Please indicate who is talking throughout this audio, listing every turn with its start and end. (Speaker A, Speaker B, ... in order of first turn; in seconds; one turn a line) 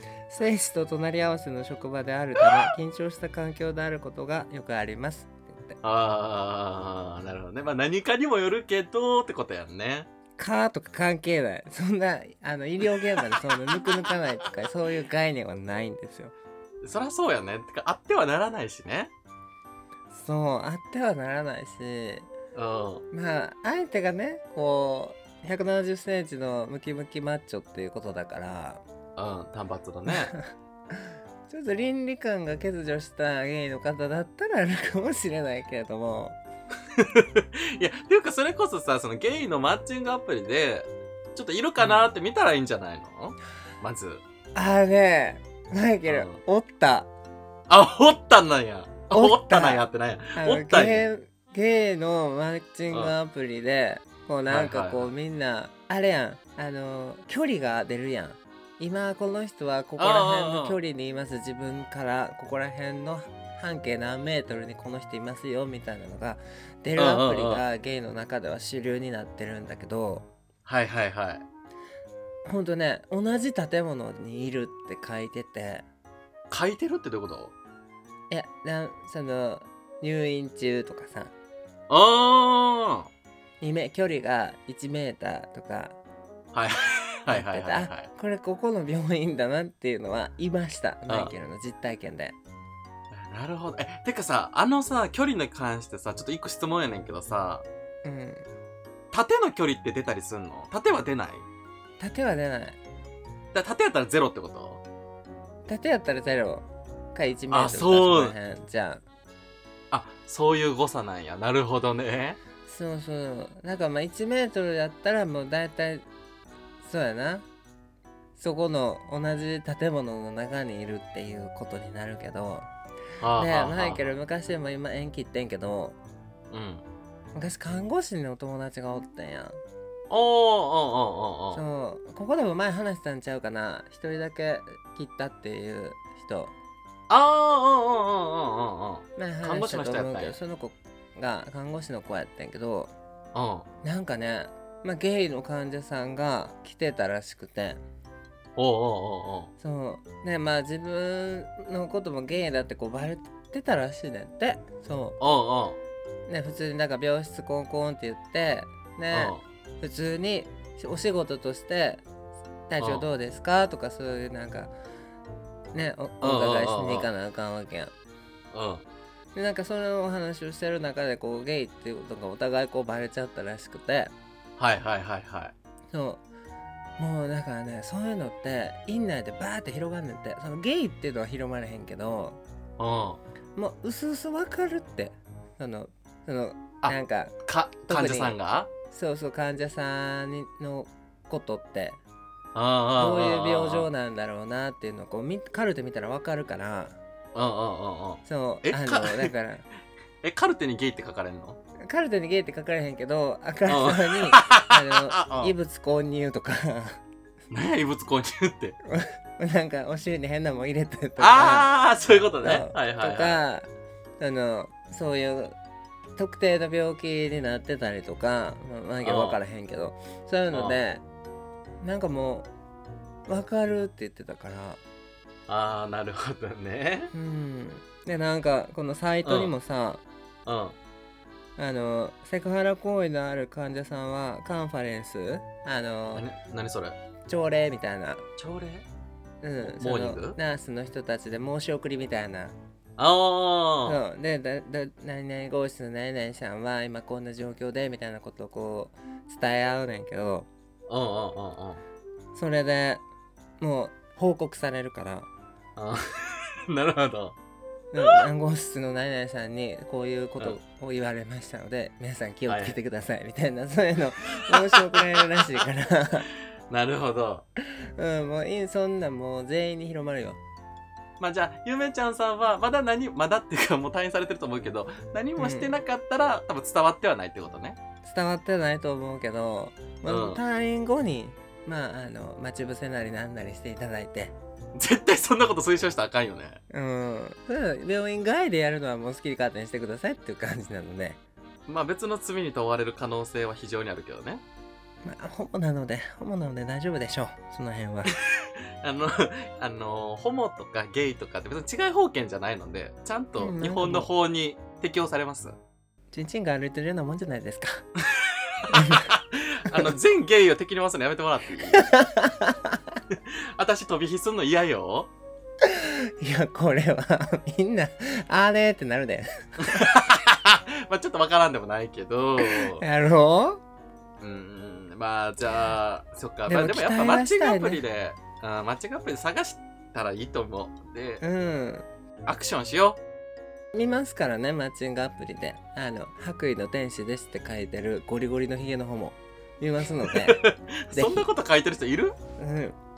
Speaker A: 0.3-5.8
Speaker B: 5.8-10.1
Speaker A: 10.4-16.3
Speaker B: 13.7-14.2
Speaker B: 16.8-19.1
Speaker A: 20.1-22.3
Speaker B: 22.6-23.1
Speaker A: 23.1-28.8
Speaker B: 29.2-30.3
Speaker A: 30.1-30.4
Speaker A: 31.0-36.4
Speaker B: 37.0-44.2
Speaker A: 41.8-42.1
Speaker A: 44.5-47.1
Speaker B: 46.1-46.4
Speaker B: 47.7-51.1
Speaker A: 49.1-70.3
Speaker B: 54.5-55.1
Speaker B: 60.0-60.8
Speaker B: 67.0-67.6
Speaker B: 70.7-71.4
Speaker A: 72.4-75.9
Speaker B: 76.5-77.5
Speaker A: 78.3-81.3
Speaker B: 81.9-83.1
Speaker A: 83.6-86.0
Speaker B: 86.5-88.1
Speaker A: 87.3-92.4
Speaker B: 93.1-97.7
Speaker A: 98.0-98.5
Speaker B: 99.1-101.5
Speaker A: 102.0-102.8
Speaker B: 103.5-104.8
Speaker A: 105.7-109.0
Speaker B: 107.5-108.3
Speaker B: 109.9-112.4
Speaker A: 112.7-116.0
Speaker A: 116.8-117.4
Speaker A: 118.4-122.7
Speaker B: 123.2-124.0
Speaker A: 123.4-126.0
Speaker B: 126.5-126.8
Speaker A: 127.3-129.6
Speaker B: 130.1-131.6
Speaker A: 131.5-136.5
Speaker B: 137.1-140.4
Speaker A: 139.2-142.9
Speaker B: 143.3-143.7
Speaker A: 143.8-147.8
Speaker B: 148.6-149.5
Speaker A: 149.6-155.2
Speaker B: 155.2-155.8
Speaker A: 156.3-162.0
Speaker B: 159.1-159.4
Speaker A: 162.7-164.7
Speaker B: 162.8-163.1
Speaker A: 165.7-167.9
Speaker B: 166.2-167.1
Speaker B: 168.5-168.8
Speaker A: 169.3-174.1
Speaker B: 174.6-175.5
Speaker A: 175.9-176.2
Speaker A: 177.0-182.4
Speaker B: 182.8-183.2
Speaker A: 183.6-187.4
Speaker B: 186.8-188.7
Speaker A: 187.9-188.4
Speaker A: 188.9-192.0
Speaker B: 192.6-193.9
Speaker A: 193.0-197.0
Speaker B: 197.3-199.3
Speaker A: 198.2-199.7
Speaker B: 200.2-201.6
Speaker A: 201.8-207.0
Speaker B: 203.7-205.5
Speaker B: 207.5-208.8
Speaker A: 208.9-211.7
Speaker B: 211.2-213.4
Speaker A: 212.4-213.7
Speaker A: 214.2-215.6
Speaker A: 216.2-221.0
Speaker B: 219.0-219.4
Speaker B: 220.5-220.8
Speaker A: 221.8-222.5
Speaker A: 223.3-224.8
Speaker B: 225.5-227.1
Speaker A: 227.1-230.0
Speaker B: 229.2-229.5
Speaker B: 230.5-230.8
Speaker A: 231.6-236.3
Speaker B: 236.1-237.0
Speaker A: 237.3-238.2
Speaker B: 238.4-238.9
Speaker A: 239.4-242.6
Speaker B: 239.6-240.4
Speaker B: 243.0-244.0
Speaker A: 243.9-250.5
Speaker B: 250.9-251.8
Speaker A: 252.3-253.0
Speaker A: 253.6-255.3
Speaker B: 255.8-257.4
Speaker A: 257.9-266.3
Speaker B: 262.5-262.8
Speaker B: 264.5-265.3
Speaker B: 266.7-267.4
Speaker A: 268.0-270.4
Speaker B: 271.2-277.8
Speaker A: 275.4-275.8
Speaker A: 278.0-284.3
Speaker B: 280.1-280.4
Speaker B: 284.8-286.6
Speaker A: 286.7-291.2
Speaker B: 291.7-294.4
Speaker A: 295.1-298.1
Speaker B: 298.4-305.6
Speaker A: 303.4-304.1
Speaker A: 306.1-307.9
Speaker B: 308.2-311.9
Speaker A: 308.7-309.1
Speaker A: 311.7-312.8
Speaker B: 313.1-315.1
Speaker A: 315.7-319.9
Speaker B: 319.6-322.8
Speaker A: 322.4-323.6
Speaker B: 324.2-331.2
Speaker A: 326.5-327.8
Speaker A: 331.2-331.9
Speaker B: 332.2-333.0
Speaker A: 333.7-341.3
Speaker B: 340.0-342.1
Speaker A: 342.4-342.8